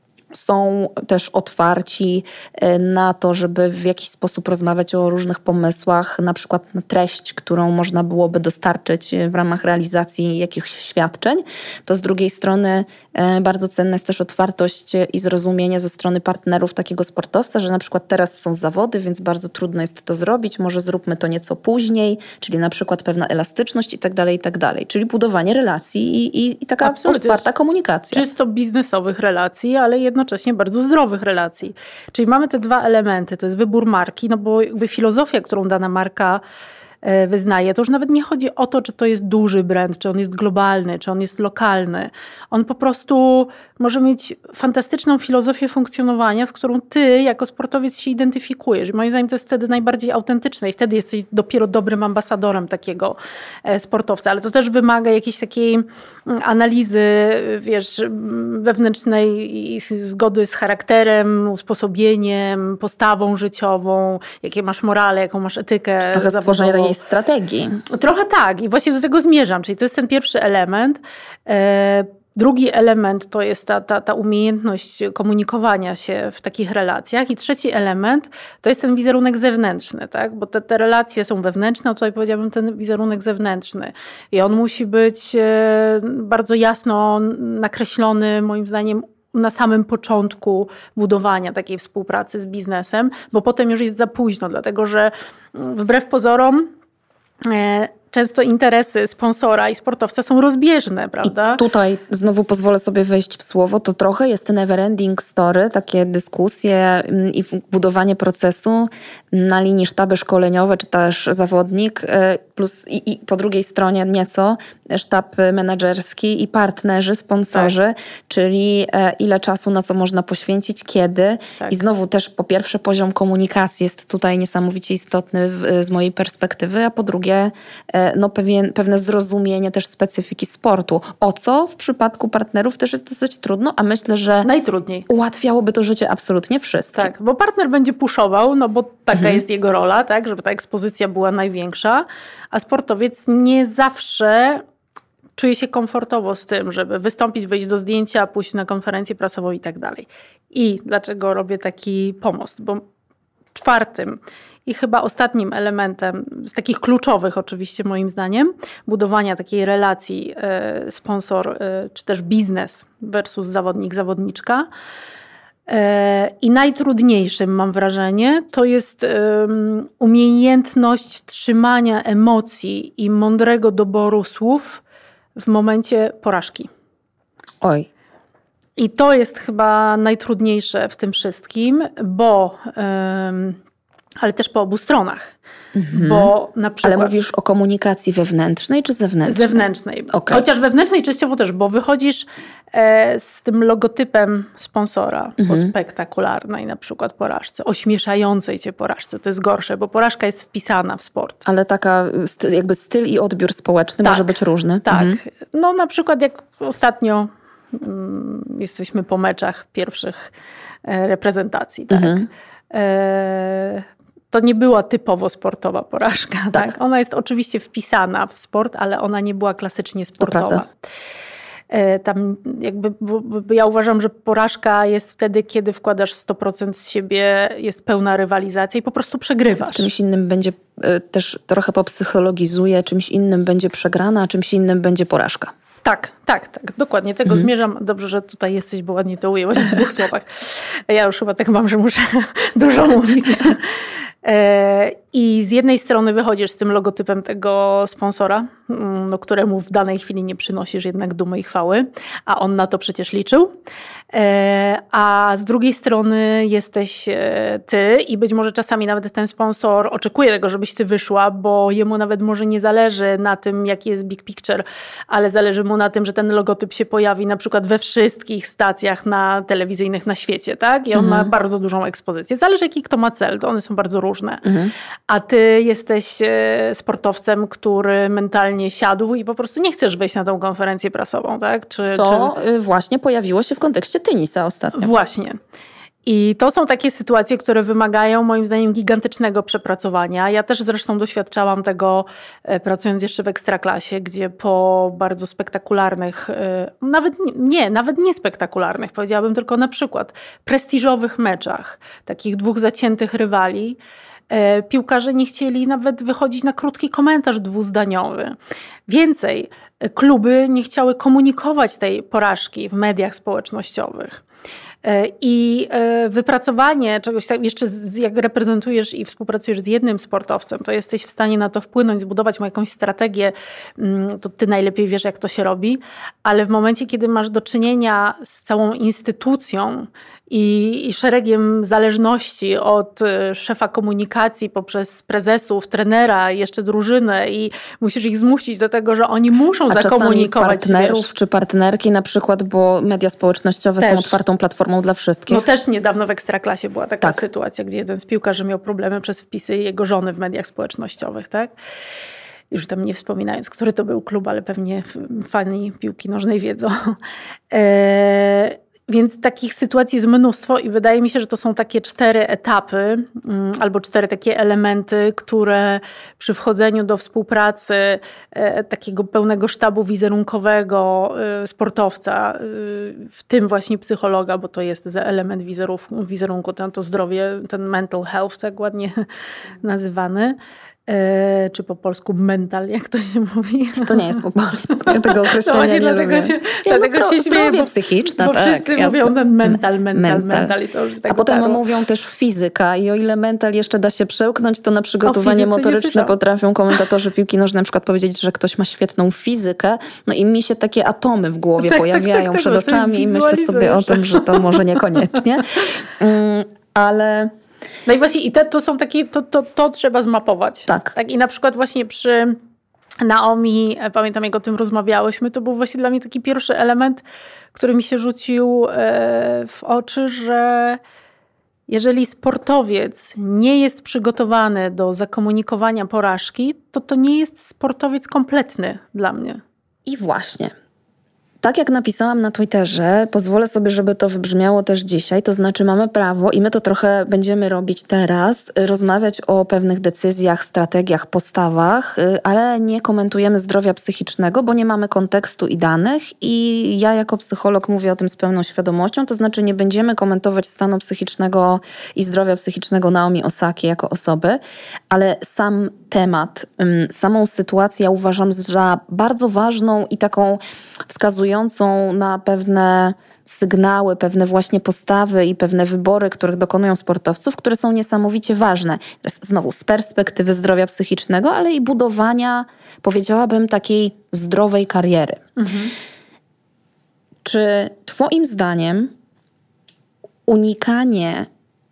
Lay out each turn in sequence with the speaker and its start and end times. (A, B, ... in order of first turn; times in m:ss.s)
0:00.3-0:28.2 A
0:26.8-0:27.5 B
0:28.1-0:36.4 B
0:37.0-1:07.0 B
1:06.1-1:07.8 A
1:07.9-1:36.7 B
1:37.4-1:41.6 B
1:41.2-2:14.5 A
2:14.4-2:15.1 B
2:15.1-2:17.1 A
2:17.0-2:24.6 B
2:19.2-2:19.4 A
2:25.4-2:32.8 B
2:33.6-2:44.7 B
2:45.7-2:54.8 B
2:55.4-2:56.7 B
2:57.6-2:57.9 A
2:58.8-3:03.6 B
3:04.2-3:05.3 B
3:05.7-3:06.3 A
3:05.9-3:07.1 B
3:06.8-3:10.4 A
3:09.2-3:21.4 B
3:15.4-3:15.7 A
3:21.4-3:25.2 A
3:24.0-3:24.3 B
3:24.8-3:30.3 B
3:30.8-3:40.7 B
3:31.9-3:32.3 A
3:40.2-3:40.6 A
3:41.7-3:49.9 B
3:49.6-3:55.5 A
3:55.8-4:13.6 B
4:14.1-4:34.4 B
4:30.9-4:31.3 A
4:34.4-4:34.7 A
4:35.1-4:42.4 B
4:41.9-4:44.9 A
4:44.8-4:45.4 B
4:46.0-5:03.8 B
5:04.3-5:08.4 B
5:08.9-5:14.2 B
5:14.8-5:41.1 B
5:39.7-5:45.4 A
5:43.8-5:44.2 B
5:45.3-5:51.5 B
5:52.5-5:57.0 B
5:57.5-6:19.0 B
6:19.6-6:20.4 B
6:20.9-6:24.2 B
6:23.8-6:30.5 A
6:24.8-6:31.6 B
6:31.1-6:47.3 A
6:35.0-6:36.1 B
6:41.6-6:44.8 B
6:47.9-6:52.4 B
6:50.7-6:51.0 A
6:53.0-6:57.0 B
6:57.6-7:00.8 B
7:01.7-7:09.4 B
7:09.9-7:10.5 A
7:11.4-7:34.4 A
7:34.9-7:55.2 A
7:55.4-7:55.7 B
7:57.2-7:58.9 A
8:00.3-8:01.3 A